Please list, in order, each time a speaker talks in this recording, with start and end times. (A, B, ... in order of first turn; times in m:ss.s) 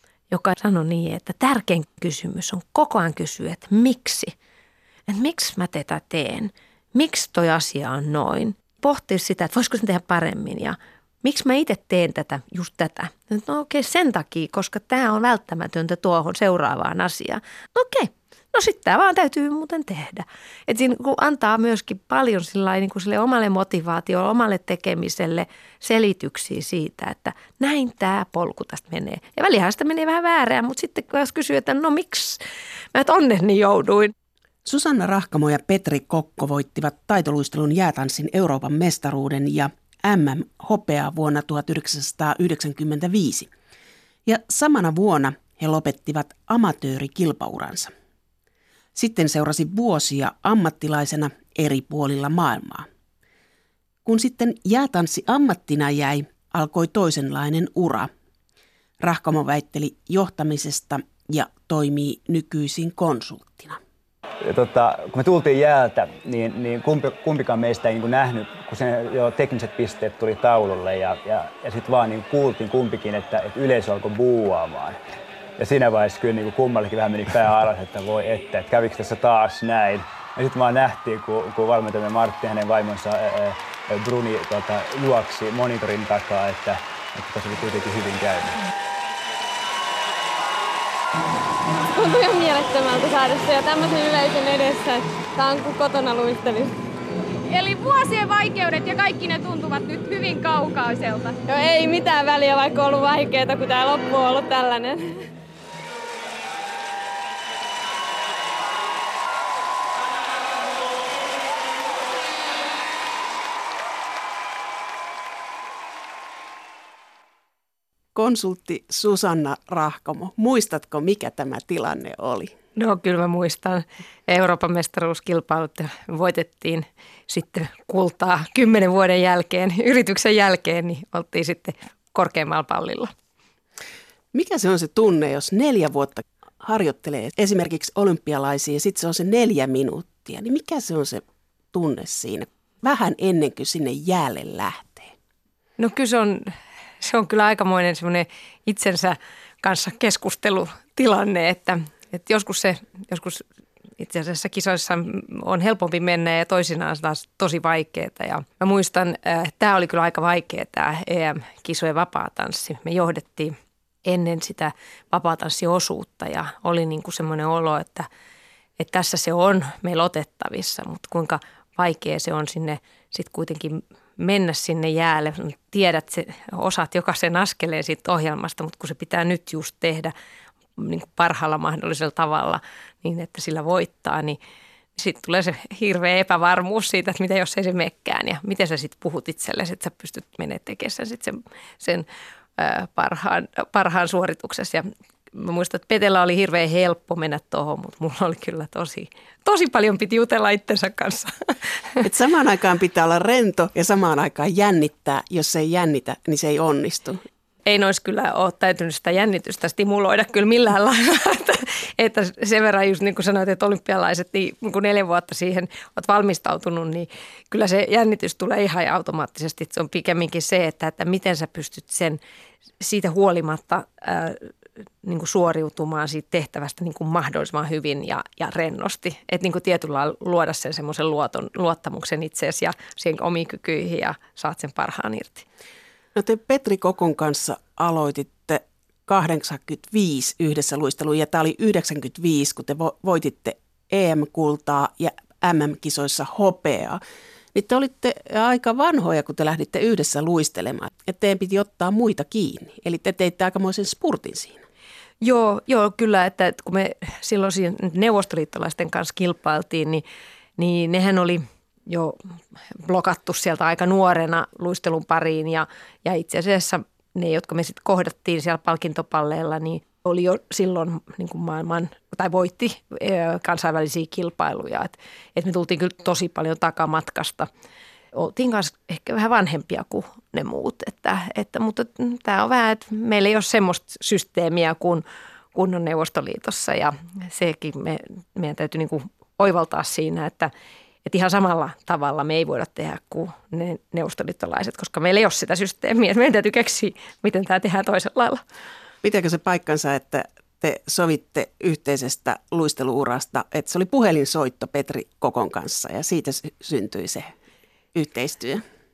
0:00.3-0:04.3 A
0:05.1-0:32.4 A
0:32.9-0:34.1 A
0:34.6-0:43.5 B
0:44.3-0:47.9 B
0:49.0-0:52.9 B
0:54.0-0:58.1 B
0:59.0-1:03.8 B
1:04.4-1:15.0 C
1:15.6-1:28.6 C
1:31.7-1:36.7 D
1:37.5-1:41.4 E
1:41.4-1:45.2 D
1:58.1-2:02.6 B
2:02.8-2:13.1 A
2:14.3-2:25.1 B
2:25.8-2:33.4 A
2:34.0-2:48.1 A
2:48.8-3:00.1 A
3:00.8-3:04.4 A
3:05.0-3:12.1 A
3:12.6-3:22.0 A
3:22.0-3:27.2 B
3:27.7-3:42.2 A
3:42.8-3:44.5 A
3:45.0-3:55.4 A
3:56.1-4:07.0 B
4:07.5-4:14.6 B
4:15.2-4:20.0 A
4:20.6-4:22.2 A
4:22.8-4:37.5 A
4:38.1-4:50.5 A
4:51.0-4:58.4 A
4:59.0-5:07.3 B
5:07.9-5:08.6 B